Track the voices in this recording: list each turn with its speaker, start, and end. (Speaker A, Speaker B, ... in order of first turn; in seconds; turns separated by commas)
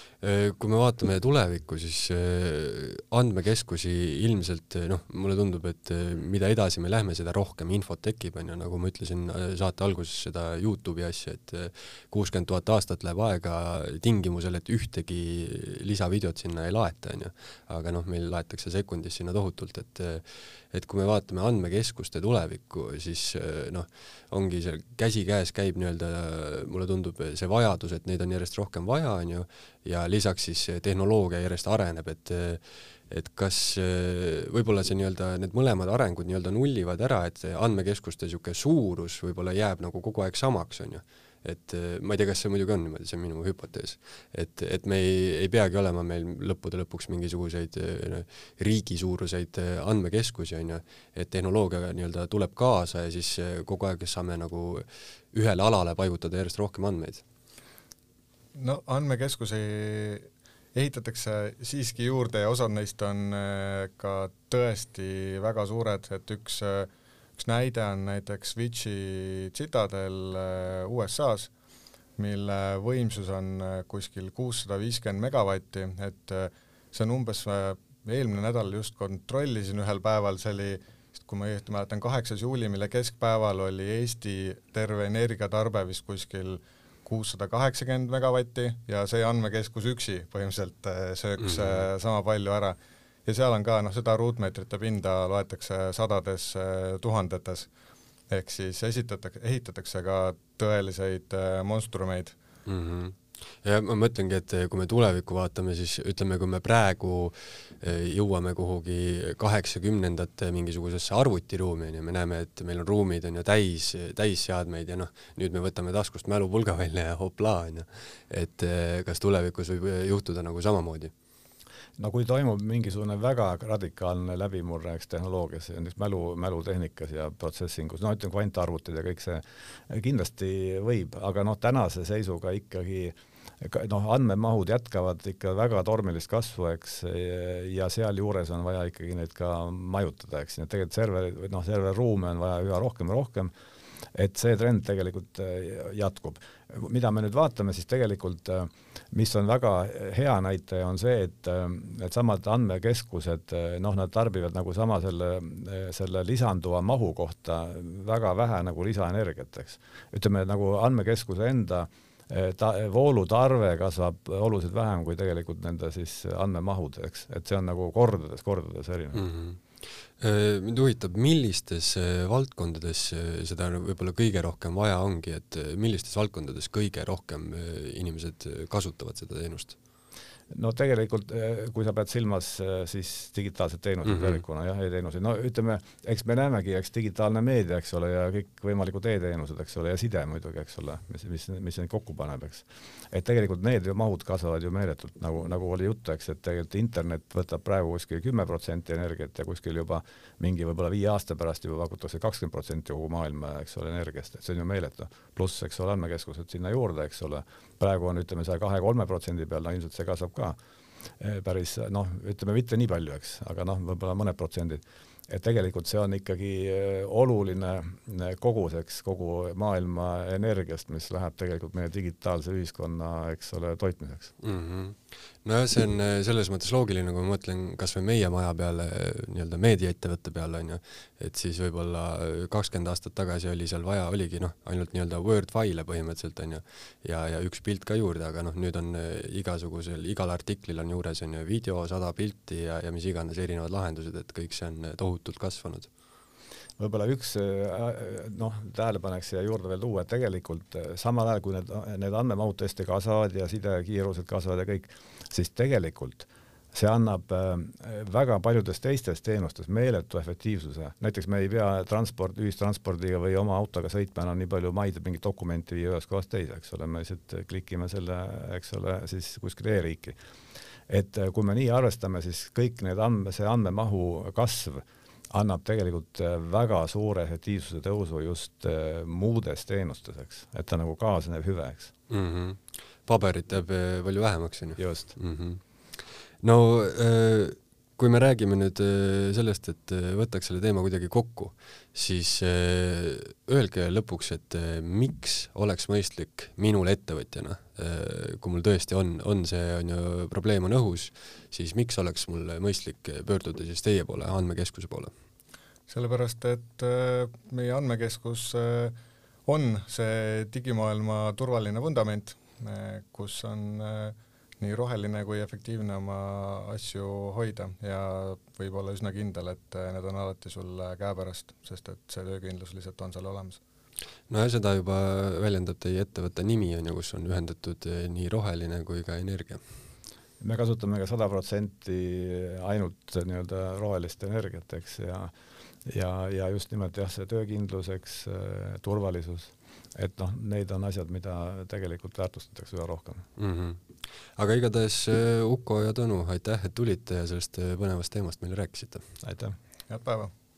Speaker A: 0.2-57.2, Speaker B: 58.5-71.5, Speaker B: 72.2-97.7, Speaker A: 91.4-91.8, Speaker B: 98.3-102.3, Speaker A: 102.7-121.1, Speaker C: 122.0-143.5, Speaker C: 144.1-169.2, Speaker A: 169.2-169.6, Speaker A: 170.2-179.8, Speaker C: 180.5-210.6, Speaker C: 211.2-224.3, Speaker A: 224.4-245.9, Speaker C: 246.8-270.2, Speaker C: 270.9-281.9, Speaker A: 282.1-285.6, Speaker C: 284.8-285.1, Speaker A: 286.4-305.1, Speaker B: 305.9-323.6, Speaker A: 324.3-329.6, Speaker C: 330.4-335.3, Speaker C: 335.9-343.3, Speaker A: 343.4-343.8, Speaker A: 344.4-349.0, Speaker C: 349.2-349.6, Speaker B: 349.9-350.3